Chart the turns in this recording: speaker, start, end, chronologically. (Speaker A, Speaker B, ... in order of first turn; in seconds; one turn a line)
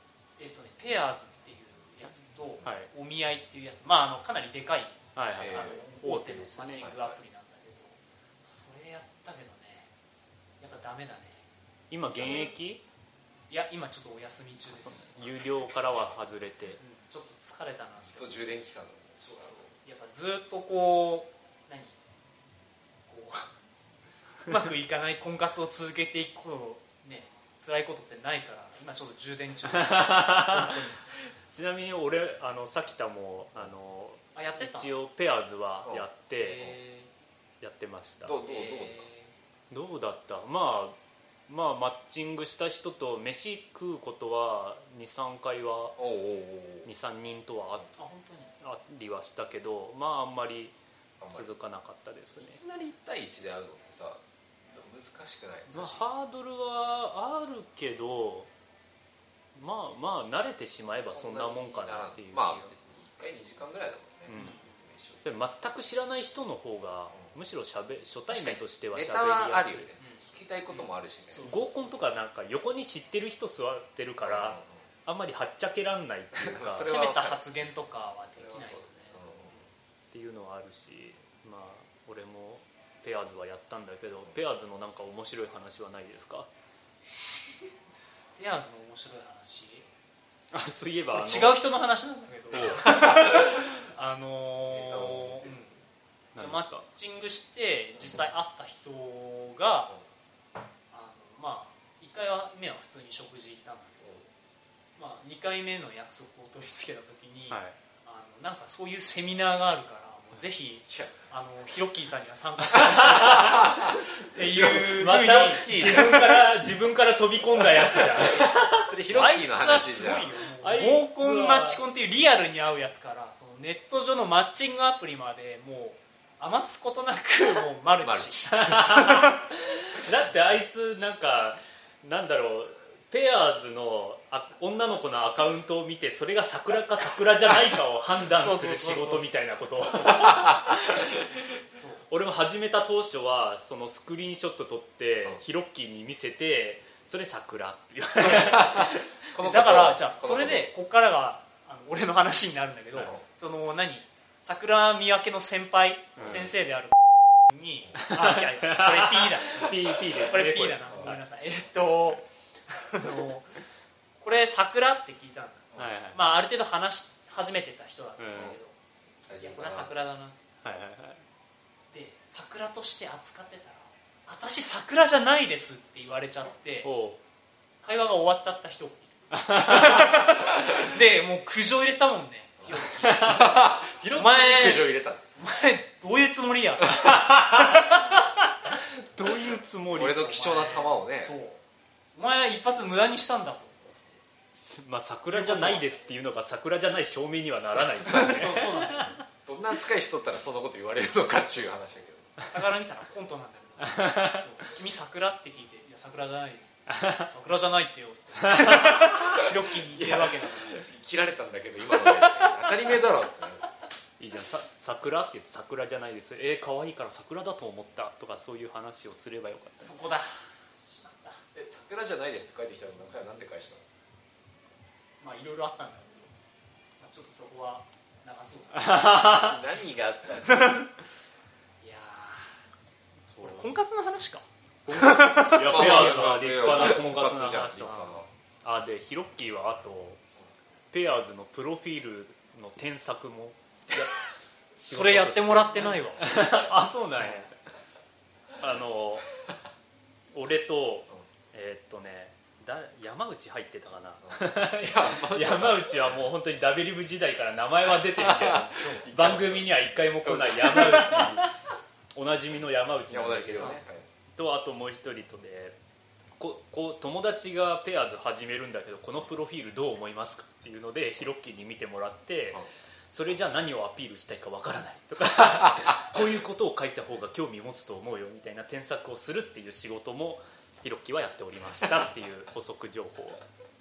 Speaker A: 0.4-9.9
Speaker B: 2.6-2.9
Speaker B: 5.2-6.9
Speaker C: 5.4-5.8
Speaker C: 6.8-7.2
Speaker A: 10.6-11.4
Speaker B: 11.9-12.8
Speaker A: 12.2-12.5
Speaker A: 13.5-15.4
Speaker B: 14.7-16.8
Speaker A: 16.8-18.5
Speaker C: 18.1-19.7
Speaker A: 19.2-21.9
Speaker A: 23.1-23.5
Speaker A: 24.4-31.0
Speaker B: 29.7-30.8
Speaker B: 31.5-36.8
Speaker A: 34.3-34.9
Speaker A: 36.4-37.1
Speaker B: 37.6-38.4
Speaker C: 38.2-39.1
Speaker A: 38.4-39.3
Speaker B: 39.7-41.0
Speaker B: 41.5-46.0
Speaker C: 46.0-46.9
Speaker B: 46.8-47.9
Speaker A: 48.0-48.5
Speaker B: 48.6-50.8
Speaker C: 51.2-51.5
Speaker B: 51.3-52.6
Speaker C: 52.4-56.0
Speaker B: 55.7-58.5
Speaker B: 59.5-62.7
Speaker C: 61.1-65.6
Speaker B: 64.3-64.6
Speaker A: 64.3-64.8
Speaker B: 65.2-69.9
Speaker C: 68.3-71.5
Speaker A: 70.0-71.9
Speaker B: 71.4-76.9
Speaker C: 74.2-74.8
Speaker C: 76.3-77.4
Speaker A: 76.8-79.6
Speaker C: 78.3-79.6
Speaker B: 80.1-86.5
Speaker A: 88.4-89.8
Speaker B: 90.5-91.6
Speaker A: 91.1-95.8
Speaker B: 92.5-92.9
Speaker C: 94.7-95.7
Speaker B: 96.3-96.8
Speaker A: 96.4-99.9
Speaker A: 100.9-104.2
Speaker A: 105.0-116.4
Speaker B: 107.5-107.8
Speaker C: 110.9-111.1
Speaker B: 112.7-113.8
Speaker C: 113.2-116.4
Speaker B: 114.5-118.9
Speaker C: 117.6-120.3
Speaker A: 119.1-129.4
Speaker B: 120.6-121.8
Speaker C: 128.0-128.5
Speaker B: 128.5-141.2
Speaker A: 138.3-140.5
Speaker C: 140.3-140.7
Speaker A: 141.7-142.1
Speaker B: 142.1-149.2
Speaker A: 148.2-148.8
Speaker C: 148.2-150.7
Speaker A: 149.4-163.6
Speaker B: 156.2-156.5
Speaker C: 156.2-156.5
Speaker B: 158.0-161.2
Speaker C: 160.9-161.2
Speaker A: 164.2-168.7
Speaker B: 165.8-166.2
Speaker B: 168.2-168.6
Speaker C: 169.2-169.9
Speaker A: 169.4-170.4
Speaker B: 170.6-171.2
Speaker A: 171.9-176.9
Speaker B: 176.8-177.2
Speaker A: 177.8-188.4
Speaker B: 179.3-180.3
Speaker B: 183.0-183.5
Speaker C: 183.2-185.2
Speaker B: 186.9-187.8
Speaker B: 188.7-190.8
Speaker C: 189.9-191.3
Speaker A: 190.4-191.6
Speaker A: 192.1-194.2
Speaker B: 194.5-199.2
Speaker A: 195.3-195.8
Speaker A: 198.1-199.2
Speaker C: 198.1-198.5
Speaker C: 199.4-202.4
Speaker A: 202.5-210.9
Speaker B: 203.8-204.5
Speaker B: 206.9-207.3
Speaker B: 208.4-208.8
Speaker C: 209.0-213.7
Speaker A: 211.9-212.8
Speaker B: 214.2-219.9
Speaker A: 219.8-221.4
Speaker C: 221.5-223.8
Speaker A: 225.2-226.3
Speaker A: 227.0-229.4
Speaker B: 228.7-229.6
Speaker C: 229.2-230.8
Speaker A: 230.4-230.9
Speaker A: 231.8-232.6
Speaker B: 233.3-233.7
Speaker A: 233.4-236.3
Speaker B: 234.8-240.2
Speaker C: 235.6-238.3
Speaker B: 240.9-244.2
Speaker B: 244.8-247.5
Speaker A: 244.9-246.3
Speaker A: 247.2-247.4
Speaker B: 248.6-249.3
Speaker B: 250.3-261.5
Speaker C: 254.2-256.1
Speaker C: 258.1-261.3
Speaker A: 258.8-259.1
Speaker B: 262.1-263.8
Speaker C: 263.1-264.1
Speaker B: 264.3-265.8
Speaker B: 266.4-283.4